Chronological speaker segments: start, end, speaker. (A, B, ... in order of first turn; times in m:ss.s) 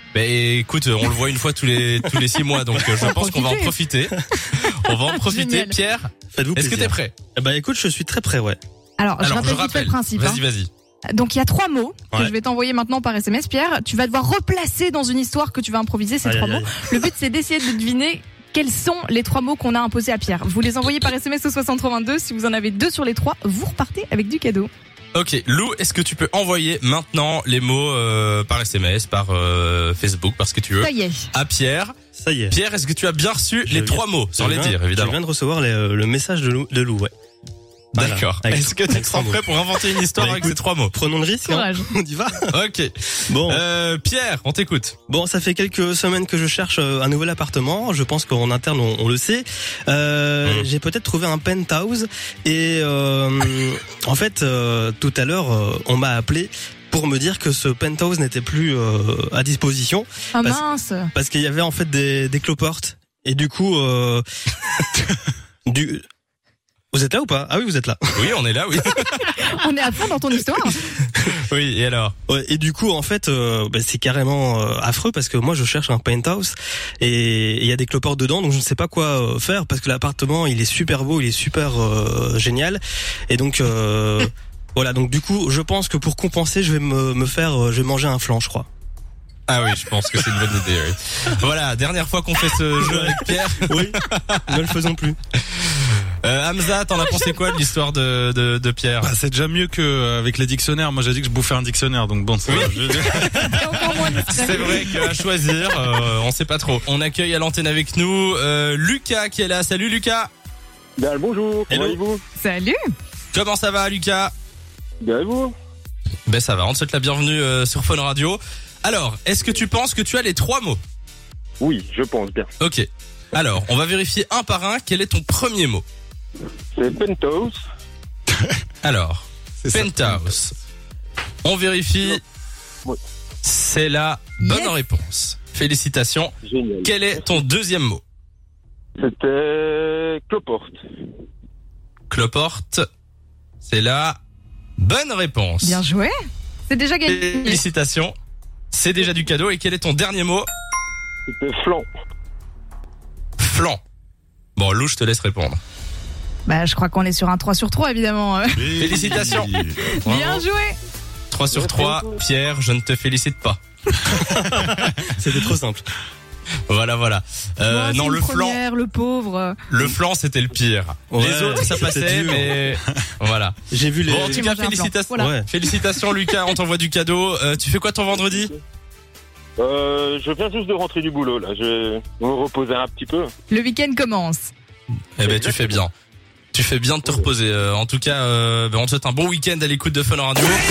0:00.1-0:07.1 A
0:03.0-0:03.8 B
0:04.9-0:05.8 B
0:06.3-0:08.6 C
0:09.0-0:10.4 B
0:09.2-0:10.7 A
0:11.1-0:24.7 B
0:16.2-0:16.9 C
0:25.2-0:31.9 A
0:30.8-0:31.3 B
0:32.2-0:32.6 C
0:32.5-0:35.2 A
0:33.7-0:37.1 C
0:38.0-0:39.5 C
0:38.0-0:40.9 A
0:40.2-0:42.5 C
0:41.4-0:41.9 B
0:42.5-0:45.0 A
0:43.3-0:43.6 C
0:45.1-1:04.2 C
1:00.4-1:01.1 B
1:05.7-1:06.0 C
1:06.9-1:08.4 C
1:08.2-1:09.3 A
1:09.1-1:10.8 B
1:11.3-1:12.1 A
1:12.3-1:28.7 C
1:29.5-1:34.4 A
1:32.8-1:35.2 C
1:35.5-1:39.1 A
1:39.0-1:43.6 D
1:42.5-1:43.5 A
1:43.5-1:44.9 B
1:44.2-1:50.3 A
1:51.0-1:52.2 E
1:51.7-1:52.0 C
1:52.4-1:52.8 B
1:53.3-1:54.3 A
1:55.0-1:55.5 E
1:56.3-2:00.8 A
2:01.6-2:02.5 E
2:02.6-2:05.8 A
2:06.8-2:07.6 E
2:08.8-2:10.6 A
2:09.6-2:10.3 D
2:11.4-2:12.2 A
2:13.4-2:18.0 A
2:14.4-2:14.7 B
2:16.4-2:17.0 E
2:19.0-2:20.8 E
2:22.1-2:22.8 A
2:23.6-2:24.2 A
2:24.8-2:25.8 A
2:25.6-2:26.1 B
2:26.7-2:27.6 B
2:27.1-2:28.2 A
2:28.7-2:30.5 A
2:31.3-2:31.9 E
2:33.4-2:33.8 A
2:34.6-2:35.6 A
2:36.5-2:38.7 B
2:38.6-2:39.9 D
2:38.8-2:39.5 A
2:39.9-2:40.8 B
2:40.0-2:40.4 A
2:41.3-2:43.6 A
2:41.5-2:42.2 E
2:44.1-2:45.8 C
2:46.7-2:48.6 A
2:47.7-2:49.6 B
2:49.7-2:58.5 A
2:51.1-2:52.6 C
2:53.7-2:54.4 C
2:54.2-2:55.3 B
2:55.2-2:55.5 C
2:58.3-2:58.5 E
2:59.6-3:03.3 E
3:03.5-3:04.5 B
3:05.2-3:05.9 A
3:05.2-3:05.8 E
3:06.5-3:10.6 A